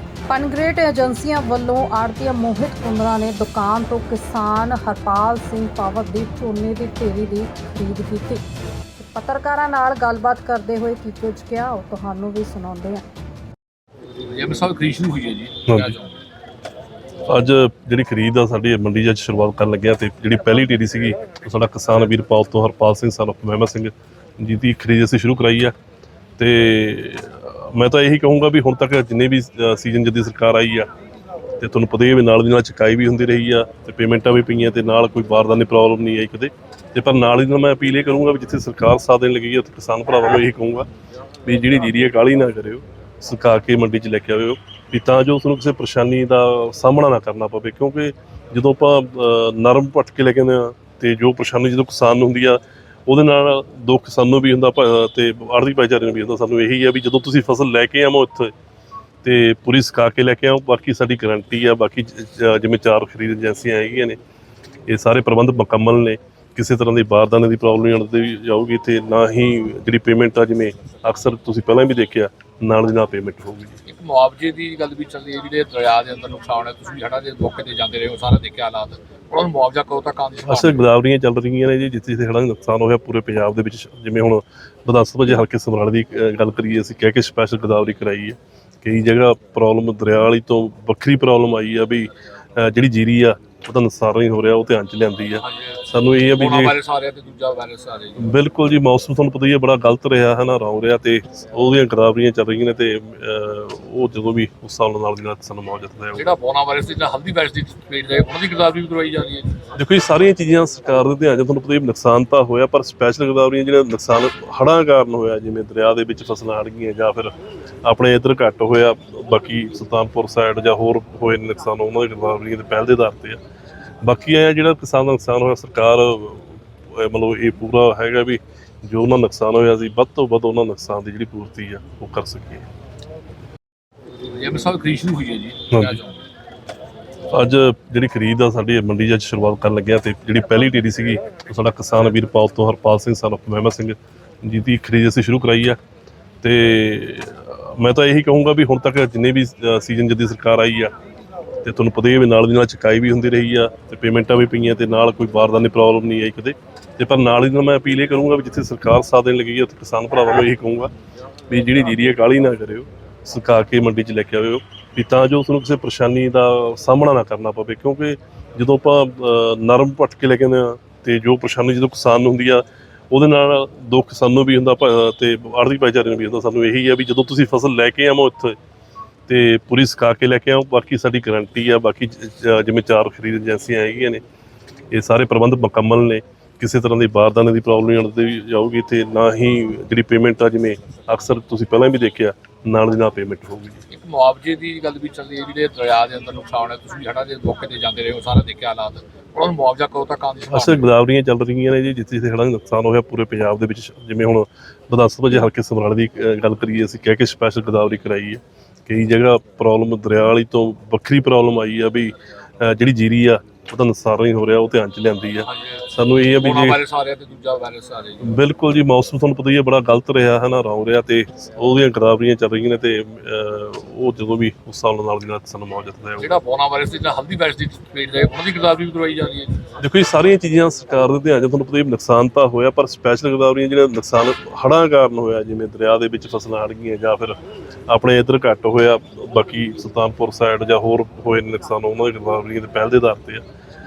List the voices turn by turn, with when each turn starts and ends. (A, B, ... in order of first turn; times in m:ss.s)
0:00.3-0:08.4 A
0:09.0-0:13.0 A
0:14.3-0:16.1 B
0:15.7-0:15.9 C
0:17.3-0:25.7 C
0:26.4-0:30.9 C
0:31.6-0:40.9 C
0:41.4-0:58.5 C
0:59.2-1:04.2 C
1:04.9-1:13.8 C
1:13.9-1:20.9 B
1:20.4-1:36.8 C
1:35.4-1:38.3 B
1:38.2-1:46.3 C
1:46.2-1:49.6 B
1:49.8-1:57.3 C
1:57.8-2:03.4 C
2:04.0-2:12.7 C
2:14.3-2:16.2 B
2:15.7-2:16.0 C
2:17.3-2:25.8 C
2:26.4-2:30.9 C
2:31.6-2:40.9 C
2:41.5-2:58.6 C
2:59.3-3:04.2 C
3:04.9-3:13.8 C
3:13.9-3:20.9 B
3:20.5-3:36.8 C
3:35.4-3:38.4 B
3:38.2-3:46.3 C
3:46.2-3:49.6 B
3:49.8-3:57.4 C
3:57.9-4:03.4 C